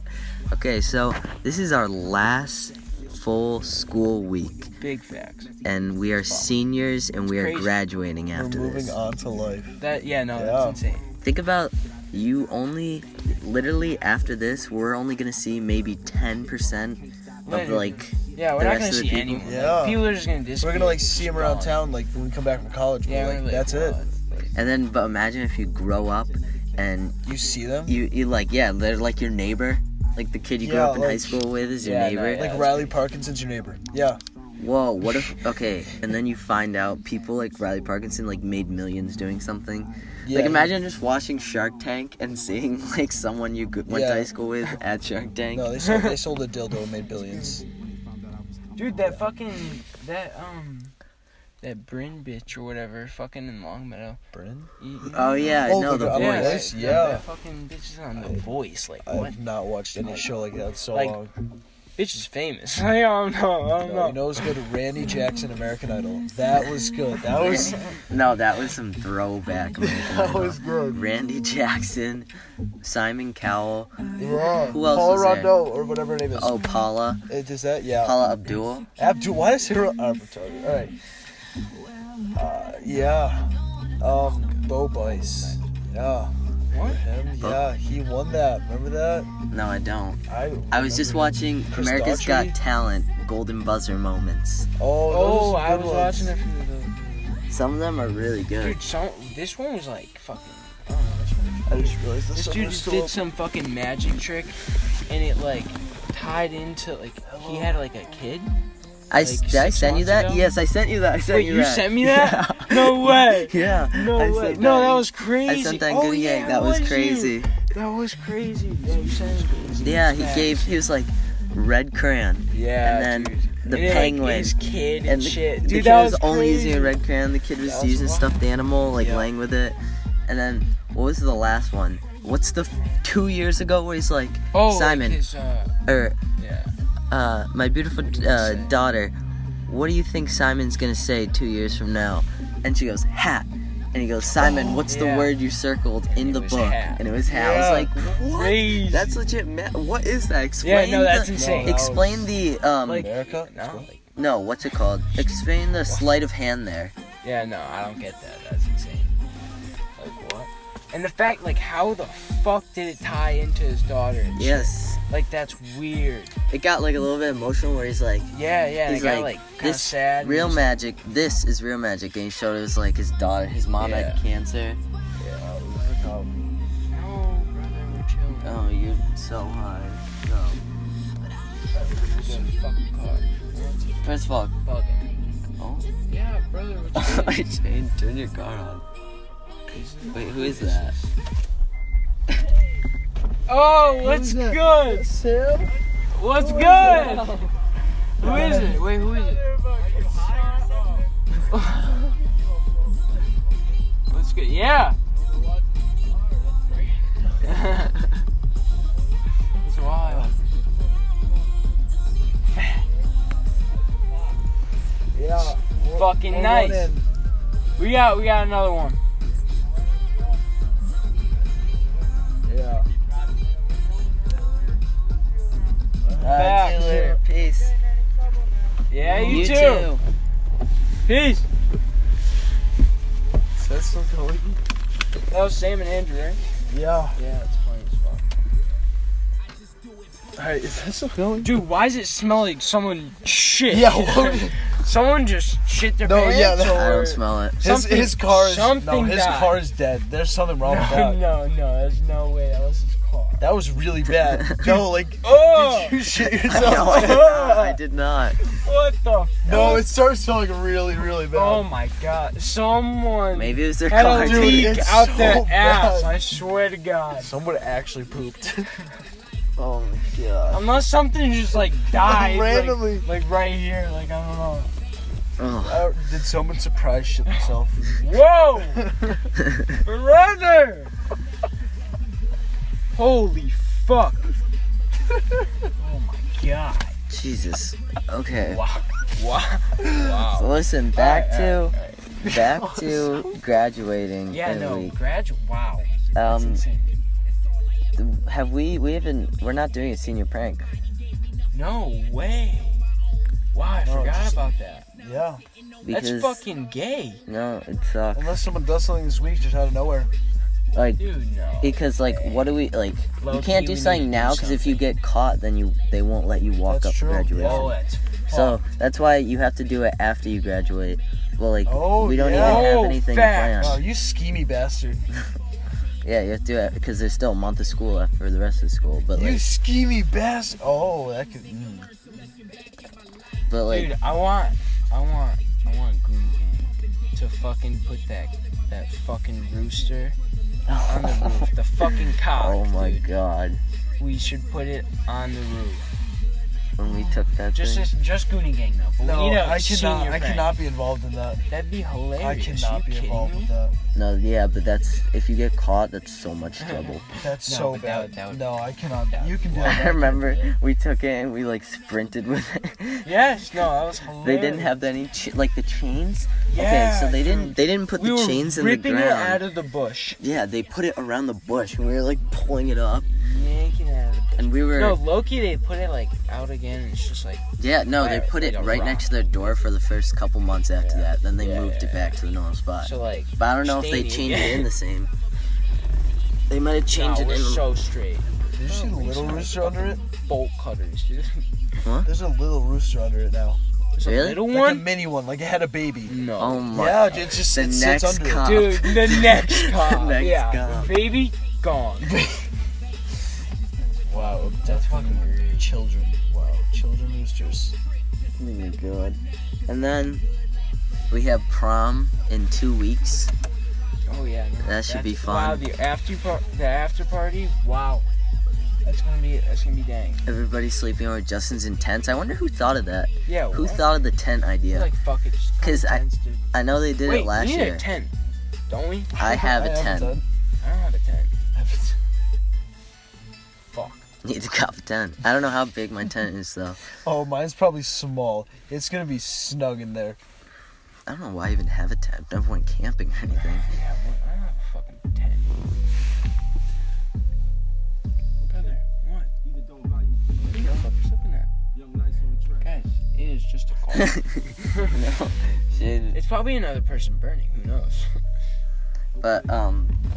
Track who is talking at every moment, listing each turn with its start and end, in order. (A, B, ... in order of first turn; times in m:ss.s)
0:00.5-0:04.7 A
0:04.8-0:05.5 B
0:05.6-0:08.9 A
0:07.3-0:07.7 B
0:08.3-0:09.8 C
0:09.8-0:11.2 B
0:10.3-0:10.8 C
0:11.2-0:19.5 A
0:17.4-0:21.8 B
0:19.4-0:24.0 C
0:23.0-0:24.5 B
0:24.5-0:27.2 A
0:27.2-0:28.0 C
0:27.8-0:32.7 A
0:30.6-0:31.4 C
0:31.8-0:32.9 B
0:32.3-0:34.2 C
0:34.6-0:45.7 A
0:40.2-0:40.7 C
0:43.9-0:44.3 C
0:45.5-0:47.6 C
0:45.8-0:46.2 B
0:48.8-0:50.9 B
0:51.6-0:54.2 B
0:54.3-0:54.7 C
0:54.8-0:59.3 B
0:55.1-0:56.6 A
0:55.6-0:57.2 C
0:58.1-0:58.4 C
0:59.0-1:01.3 C
1:00.0-1:00.3 B
1:00.9-1:01.2 B
1:02.0-1:04.5 B
1:03.8-1:07.9 C
1:07.3-1:12.3 A
1:07.4-1:08.0 B
1:09.8-1:11.0 C
1:12.8-1:13.9 A
1:14.2-1:16.6 C
1:14.7-1:15.5 A
1:16.3-1:17.2 A
1:17.3-1:18.2 C
1:18.0-1:18.9 A
1:19.0-1:20.9 C
1:22.3-1:29.3 C
1:24.0-1:25.6 B
1:26.7-1:27.0 B
1:29.5-1:34.7 A
1:30.3-1:32.6 C
1:34.8-1:36.3 C
1:35.1-1:37.4 B
1:37.5-1:38.8 A
1:38.6-1:48.5 B
1:41.6-1:43.2 C
1:47.2-1:47.7 C
1:49.1-1:57.6 A
1:49.2-1:50.5 B
1:51.3-2:00.8 B
1:58.9-1:59.5 C
1:59.8-2:15.2 A
2:02.5-2:07.0 B
2:07.6-2:08.3 B
2:09.0-2:09.3 C
2:14.5-2:15.8 B
2:15.8-2:16.2 A
2:16.4-2:16.7 B
2:17.1-2:19.2 A
2:17.9-2:18.7 B
2:19.7-2:33.1 A
2:24.8-2:25.4 B
2:26.1-2:27.0 B
2:27.2-2:27.9 C
2:28.1-2:29.2 B
2:30.6-2:31.8 B
2:31.3-2:32.3 C
2:32.8-2:34.1 B
2:32.9-2:33.9 C
2:34.1-2:36.9 A
2:35.8-2:36.2 B
2:37.2-2:39.1 B
2:40.0-2:46.3 B
2:44.3-2:45.0 A
2:46.5-2:48.3 A
2:48.3-2:50.7 B
2:48.8-2:54.8 A
2:53.8-2:54.2 B
2:55.2-2:56.3 C
2:56.9-2:58.6 B
2:58.4-3:00.6 A
3:01.8-3:04.0 B
3:01.8-3:02.4 C
3:04.0-3:04.5 A
3:04.6-3:05.1 B
3:05.6-3:05.9 A
3:06.0-3:07.4 B
3:06.9-3:08.8 A
3:09.7-3:11.1 B
3:10.1-3:10.9 A
3:13.5-3:15.1 B
3:14.0-3:15.7 C
3:16.1-3:17.4 B
3:16.4-3:17.5 C
3:18.2-3:19.6 B
3:18.2-3:18.8 C
3:20.2-3:20.5 B
3:21.5-3:22.0 B
3:24.1-3:25.0 B
3:27.4-3:28.0 B
3:29.6-3:30.3 B
3:30.0-3:30.3 C
3:35.1-3:37.1 C
3:35.9-3:36.9 B
3:37.8-3:39.0 B
3:42.4-3:42.9 C
3:46.0-3:47.2 C
3:46.2-3:47.7 A
3:46.3-3:46.9 B
3:48.9-3:49.9 B
3:49.0-3:49.6 C
3:49.1-3:50.0 A
3:51.0-3:51.4 B
3:53.6-3:54.6 C
3:55.3-3:56.4 B
3:56.7-3:57.2 C
3:57.1-3:58.2 B
4:00.4-4:01.5 C
4:01.4-4:09.6 B
4:03.7-4:04.6 C
4:06.0-4:11.2 C
4:06.7-4:07.6 A
4:10.6-4:13.4 B
4:13.4-4:17.6 C
4:15.2-4:17.8 B
4:16.4-4:18.4 A
4:18.5-4:19.9 B
4:19.4-4:21.7 C
4:21.2-4:27.3 B
4:23.3-4:24.8 A
4:24.1-4:26.3 C
4:27.2-4:28.7 C
4:29.6-4:30.6 A
4:30.5-4:34.7 B
4:31.8-4:33.1 C
4:35.4-4:35.8 A
4:35.7-4:38.0 C
4:37.3-4:38.8 B
4:38.7-4:39.2 C
4:39.7-4:40.9 B
4:42.9-4:44.3 B
4:45.8-4:47.0 B
4:47.1-4:48.6 A
4:48.5-4:52.1 B
4:50.3-4:54.9 A
4:52.2-4:52.8 C
4:54.3-4:57.0 B
4:56.1-4:56.6 A
4:58.0-5:00.7 A
5:01.5-5:02.8 B
5:03.5-5:04.9 B
5:03.8-5:04.4 C
5:05.0-5:05.4 C
5:05.8-5:06.4 A
5:05.9-5:07.2 B
5:07.2-5:08.4 A
5:08.1-5:10.1 C
5:10.7-5:11.0 A
5:11.0-5:12.5 B
5:11.6-5:17.7 A
5:13.2-5:14.8 B
5:16.6-5:17.8 C
5:17.3-5:18.6 B
5:18.3-5:23.8 A
5:21.6-5:22.8 C
5:22.3-5:23.6 B
5:23.6-5:25.1 C
5:26.0-5:29.4 A
5:29.1-5:31.9 C
5:33.5-5:33.9 A
5:33.6-5:40.2 B
5:40.7-5:41.5 A
5:40.8-5:43.1 B
5:42.3-5:43.6 A
5:44.0-5:45.9 B
5:46.8-5:47.9 A
5:47.5-5:50.6 B
5:49.0-5:51.4 C
5:51.5-5:53.5 B
5:52.2-5:53.8 C
5:53.9-5:57.1 A
5:56.6-6:00.5 B
5:57.2-6:00.3 C
5:59.5-6:03.1 A
6:03.0-6:04.8 B
6:04.2-6:09.4 A
6:06.5-6:10.2 B
6:10.2-6:13.1 A
6:13.0-6:19.1 B
6:14.4-6:15.0 A
6:17.6-6:25.1 A
6:20.8-6:22.2 B
6:22.8-6:24.7 B
6:26.5-6:27.7 A
6:26.9-6:31.4 B
6:28.5-6:30.0 C
6:31.8-6:32.1 A
6:32.0-6:33.6 C
6:33.9-6:34.9 B
6:34.0-6:34.4 A
6:34.5-6:36.1 C
6:36.1-6:36.8 B
6:36.4-6:41.0 A
6:36.7-6:38.6 C
6:38.3-6:42.2 B
6:42.1-6:42.4 C
6:44.0-6:45.8 B
6:44.1-6:47.8 C
6:48.4-6:50.2 A
6:51.1-6:53.3 A
6:54.0-6:58.1 B
6:54.6-6:55.6 A
6:58.8-7:00.2 B
7:00.2-7:04.9 A
7:03.2-7:03.9 B
7:04.7-7:06.4 B
7:05.6-7:07.8 A
7:07.0-7:08.1 B
7:08.7-7:09.2 B
7:09.2-7:10.2 A
7:09.2-7:10.2 C
7:10.6-7:11.3 B
7:11.5-7:12.0 C
7:13.7-7:14.0 B
7:14.2-7:16.8 A
7:16.9-7:20.2 C
7:21.1-7:23.8 A
7:23.3-7:25.7 B
7:28.5-7:29.3 B
7:30.4-7:31.5 B
7:32.6-7:34.8 B
7:34.8-7:36.2 A
7:36.1-7:38.2 B
7:39.2-7:40.0 A